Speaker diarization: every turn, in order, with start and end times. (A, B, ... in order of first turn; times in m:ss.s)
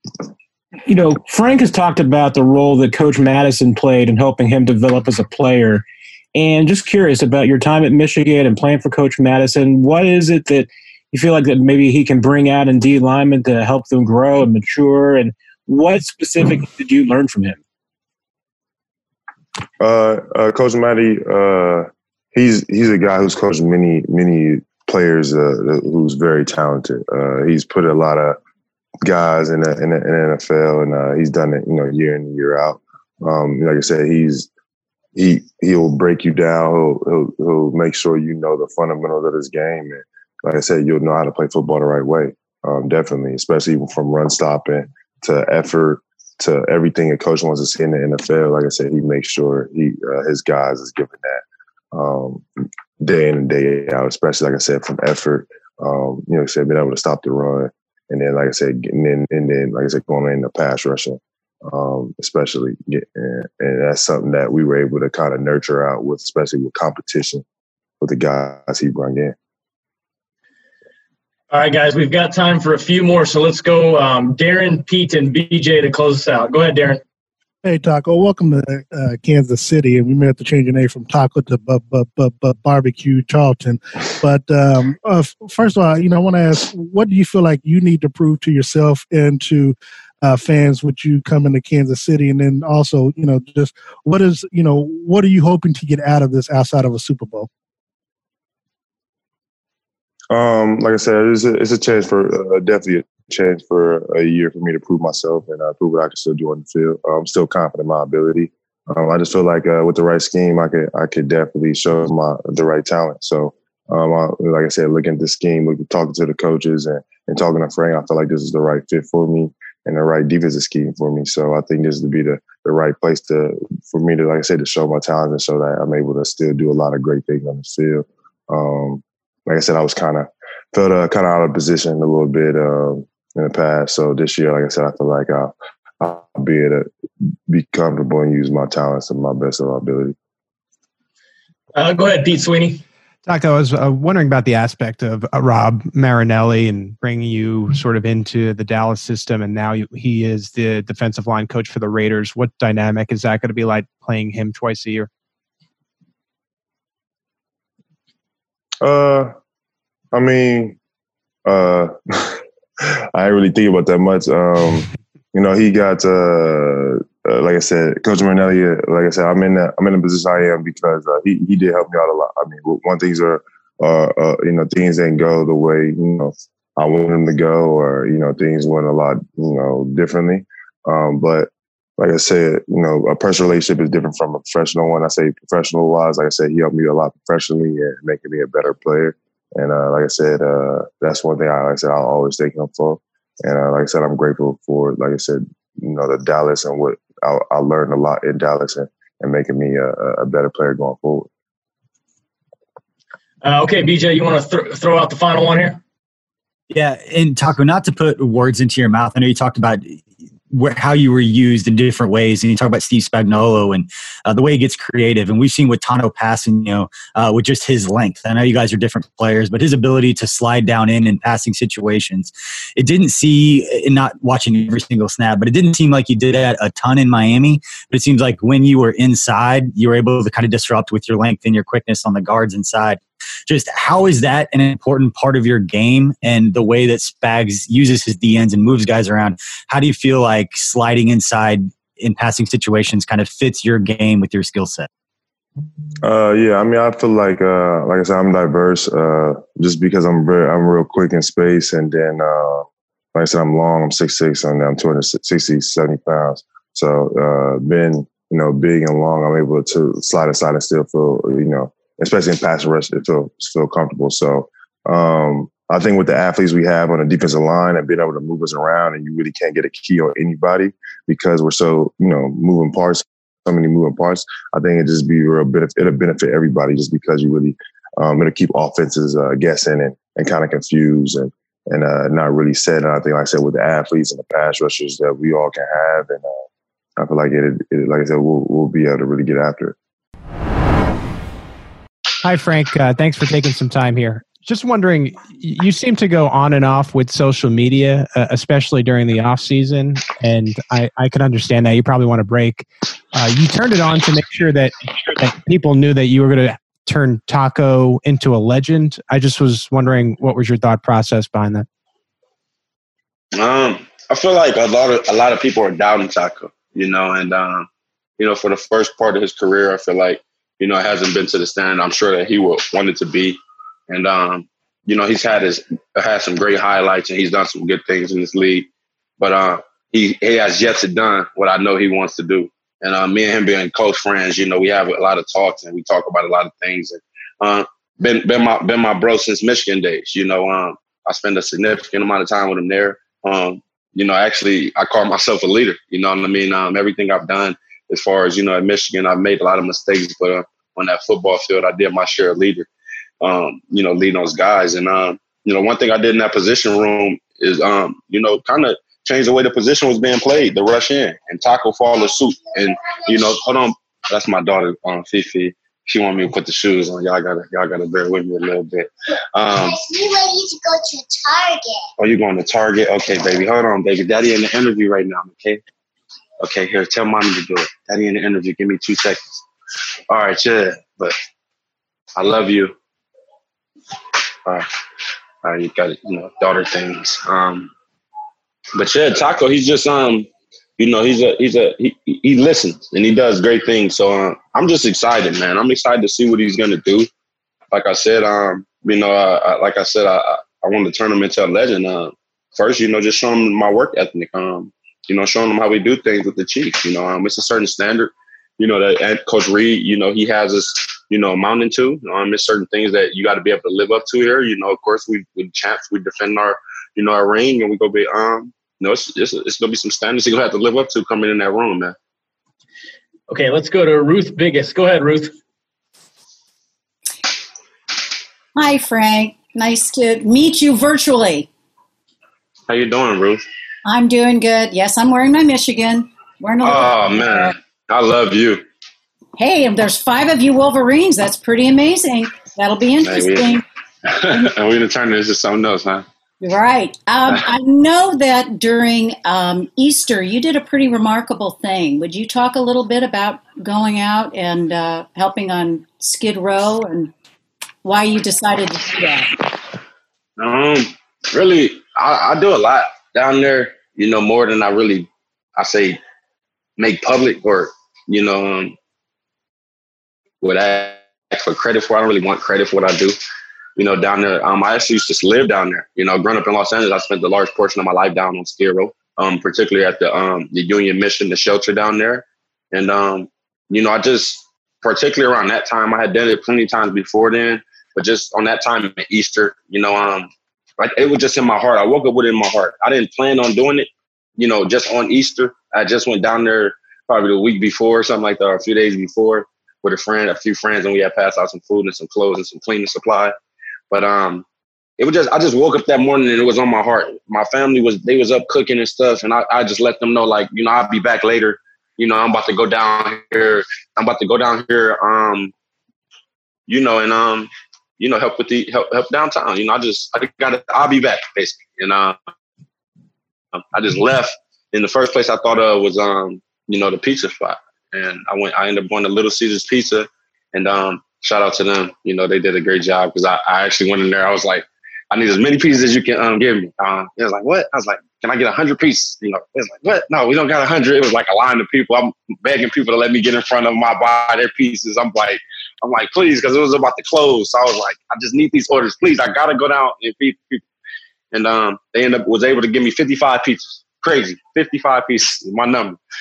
0:00.8-0:17.6 A
0:19.8-0:28.4 B
0:29.0-0:34.5 B
0:35.1-0:51.4 B
0:51.9-0:52.5 B
0:53.0-1:07.4 B
1:08.0-1:09.3 B
1:11.5-1:17.0 C
1:17.6-1:37.5 D
1:40.3-2:16.9 B
2:17.5-2:20.1 B
2:21.7-2:22.8 C
2:23.2-2:35.1 E
2:38.8-2:39.3 B
2:40.1-2:40.8 B
2:41.4-2:42.4 B
2:43.1-3:21.3 B
3:23.4-3:25.8 C
3:26.7-4:04.9 F
4:06.0-4:46.4 B
4:47.0-4:49.7 B
4:52.2-5:11.6 E
5:13.4-5:17.7 G
5:18.2-5:28.7 G
5:29.2-5:52.7 G
5:53.2-6:09.8 G
6:02.4-6:03.4 H
6:09.5-6:11.9 H
6:12.0-6:15.6 G
6:16.4-6:19.4 G
6:20.1-6:21.2 G
6:22.2-6:22.7 G
6:25.4-6:27.7 G
6:28.8-6:37.1 G
6:37.7-7:02.0 G
7:03.3-7:05.3 C
7:08.5-7:11.5 I
7:12.7-7:13.4 G
7:13.8-7:17.5 I
7:16.6-7:18.6 G
7:19.4-7:23.6 I
7:23.0-7:23.5 G
7:24.1-7:26.0 G
7:26.4-7:37.1 I
7:37.8-7:39.4 I
7:40.4-7:46.0 G
7:46.8-7:48.7 G
7:50.4-7:53.2 G
7:53.8-8:23.3 G
8:23.9-8:24.4 G
8:25.0-8:35.5 G
8:36.7-8:42.2 G
8:43.7-9:10.6 G
9:11.3-9:16.0 G